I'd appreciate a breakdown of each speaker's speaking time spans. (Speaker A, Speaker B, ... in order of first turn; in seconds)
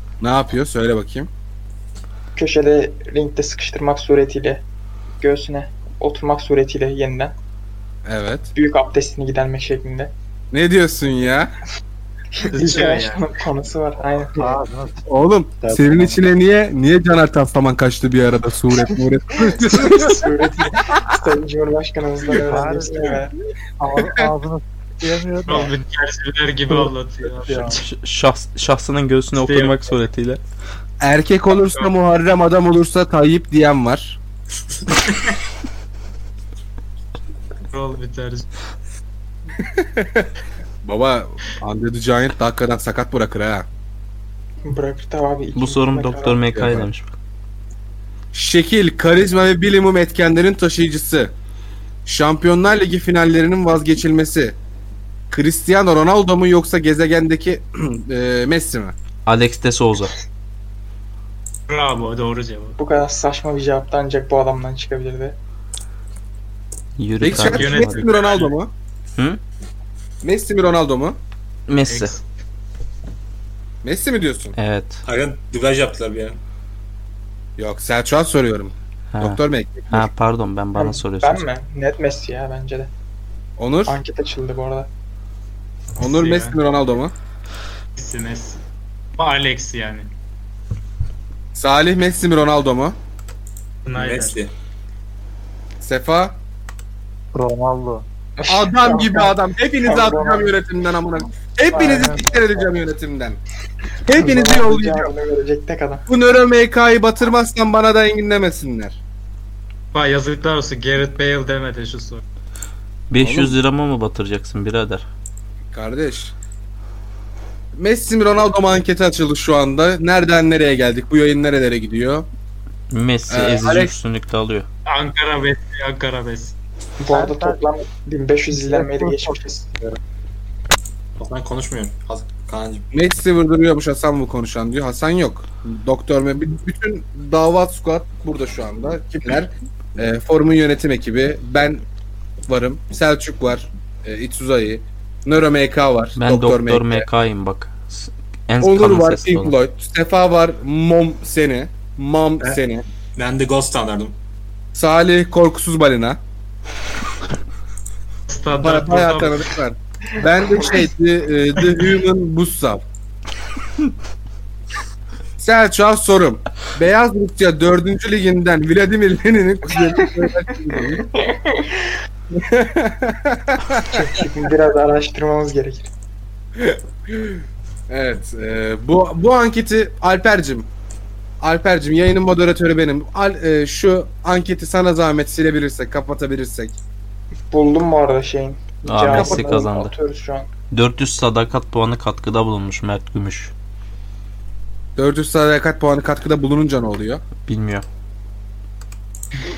Speaker A: 0.2-1.3, 8.1-8.5, 10.5-11.6, 15.1-20.2, 24.0-24.3, 31.0-34.2, 39.6-40.3, 40.8-43.7, 46.5-46.9, 48.3-51.3, 52.1-54.6, 55.3-59.0, 67.2-68.7, 70.2-71.2, 73.8-74.6, 77.6-80.1, 83.6-84.0, 86.0-87.1, 91.5-93.0, 95.8-96.4, 98.5-103.4, 104.1-105.1, 106.1-109.0, 113.2-113.5, 115.7-116.3, 117.7-122.3, 123.3-123.9, 132.9-141.8, 142.5-147.1, 148.6-152.8, 154.7-156.2, 158.6-162.8, 165.4-171.1, 172.3-174.1, 176.6-180.7, 181.4-186.8, 189.1-189.4, 195.0-197.2
Speaker B: 2.4-4.6, 5.2-7.3, 8.6-10.1, 12.4-14.6, 19.7-23.3, 44.6-46.5, 62.8-65.4, 80.8-82.9, 83.9-84.9, 98.4-100.5, 101.7-102.3, 104.1-106.1, 127.0-129.8, 171.2-171.7, 173.9-175.9, 187.5-190.5
Speaker C: 12.5-13.2, 25.5-27.8, 29.3-30.0, 37.7-38.5, 61.7-62.8, 67.2-68.5, 71.9-72.2, 86.0-86.6, 88.0-88.6, 89.2-90.1, 93.9-94.4, 109.9-112.2, 124.9-126.5, 158.3-159.4
Speaker D: 14.4-15.1, 15.6-16.2, 22.4-23.2, 23.8-25.7, 97.3-98.0, 127.1-127.6, 128.5-129.4
Speaker E: 27.7-30.4, 45.6-47.1, 59.3-60.1, 67.0-68.0, 71.7-72.2, 74.6-75.0, 79.1-81.5, 113.1-115.0, 122.9-124.7, 146.2-149.5, 188.8-189.9, 190.7-193.5, 197.4-197.8
Speaker F: 75.1-76.4, 93.9-94.5, 131.2-132.8, 153.2-154.2